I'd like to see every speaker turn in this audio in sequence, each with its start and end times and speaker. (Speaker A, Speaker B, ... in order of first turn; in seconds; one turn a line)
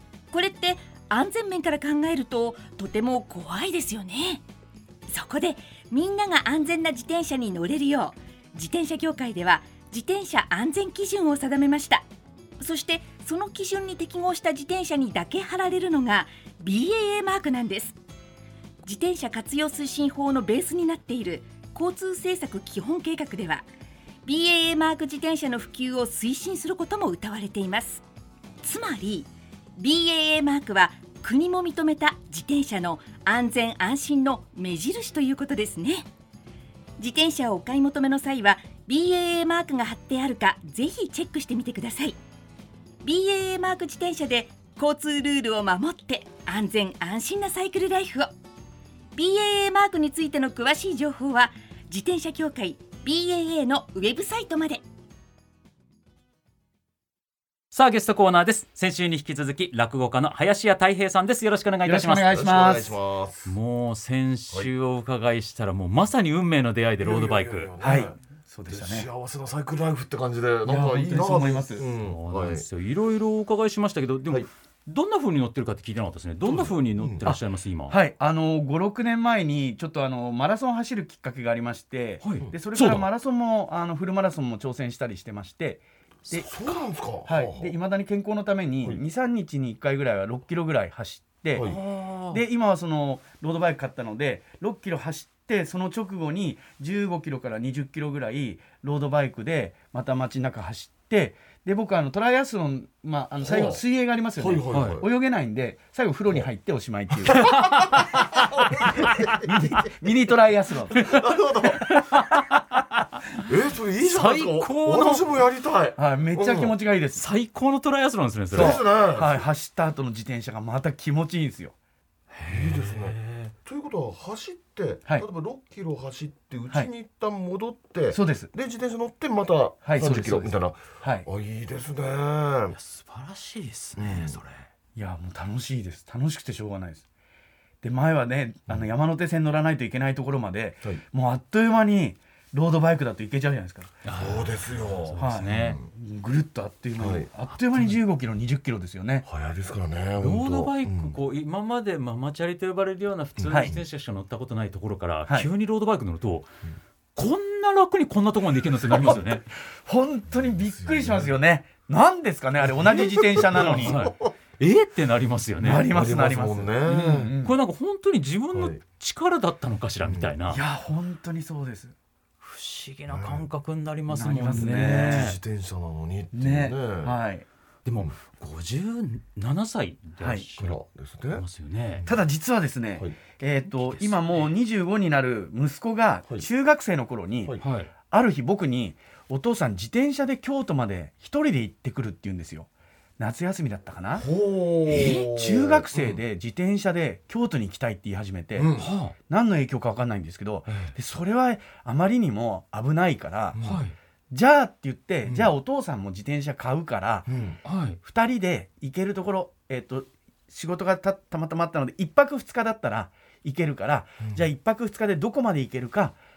Speaker A: 0.3-4.5
Speaker A: 5.1-12.1
Speaker A: 12.6-18.0
Speaker A: 18.8-23.7
Speaker A: 24.2-28.1
Speaker A: 28.6-36.1
Speaker A: 37.0-42.2
Speaker A: 43.0-48.3
Speaker A: 49.1-54.9
Speaker B: 57.7-62.3
Speaker C: 61.8-62.9
Speaker D: 62.3-63.6
Speaker B: 63.5-67.8
Speaker D: 67.0-68.2
Speaker C: 67.8-69.1
Speaker D: 68.7-72.7
Speaker C: 70.7-71.9
Speaker B: 71.8-78.0
Speaker D: 76.4-77.3
Speaker C: 77.2-85.8
Speaker B: 82.2-83.1
Speaker B: 86.3-86.8
Speaker D: 86.3-87.8
Speaker C: 87.2-91.7
Speaker D: 91.5-91.8
Speaker B: 91.6-92.4
Speaker C: 92.3-107.5
Speaker D: 103.4-103.8
Speaker D: 104.4-105.1
Speaker B: 104.7-105.0
Speaker D: 107.3-109.9
Speaker B: 107.5-107.9
Speaker C: 108.8-111.2
Speaker D: 110.9-112.0
Speaker B: 111.8-112.8
Speaker D: 113.4-116.8
Speaker B: 114.0-115.3
Speaker C: 116.0-117.2
Speaker B: 117.2-118.8
Speaker D: 118.5-119.5
Speaker C: 118.5-121.8
Speaker B: 122.3-123.5
Speaker D: 122.5-132.8
Speaker C: 128.1-128.5
Speaker C: 129.8-131.3
Speaker B: 132.7-134.7
Speaker D: 134.0-134.4
Speaker C: 134.9-137.1
Speaker C: 137.8-143.9
Speaker B: 144.1-145.8
Speaker D: 144.1-145.9
Speaker C: 145.2-149.2
Speaker D: 147.0-147.3
Speaker B: 147.7-148.0
Speaker D: 149.2-151.2
Speaker B: 150.2-156.5
Speaker D: 153.4-153.8
Speaker C: 153.5-153.8
Speaker B: 157.2-159.5
Speaker C: 159.0-164.0
Speaker D: 160.3-161.3
Speaker D: 162.8-164.3
Speaker B: 163.4-165.9
Speaker C: 165.6-167.5
Speaker D: 165.7-167.3
Speaker B: 166.9-170.6
Speaker D: 168.5-168.8
Speaker D: 170.0-170.4
Speaker C: 170.5-171.9
Speaker B: 172.4-175.4
Speaker D: 173.1-173.5
Speaker C: 174.1-175.3
Speaker D: 174.5-177.2
Speaker C: 176.3-177.5
Speaker B: 177.8-180.8
Speaker C: 180.2-180.5
Speaker D: 180.6-181.4
Speaker B: 181.3-182.0
Speaker D: 182.0-182.2
Speaker C: 182.1-187.6
Speaker B: 183.7-184.5
Speaker B: 187.6-187.9
Speaker C: 188.1-192.7
Speaker C: 193.2-194.3
Speaker D: 194.2-196.2
Speaker B: 194.9-195.2
Speaker C: 195.1-198.7
Speaker D: 198.6-198.9
Speaker B: 198.8-199.2
Speaker C: 199.3-203.6
Speaker D: 200.7-200.9
Speaker D: 203.6-203.8
Speaker B: 203.6-203.9
Speaker C: 204.3-207.3
Speaker D: 205.2-205.5
Speaker D: 207.3-207.6
Speaker B: 207.7-208.0
Speaker C: 208.0-216.2
Speaker D: 214.2-214.5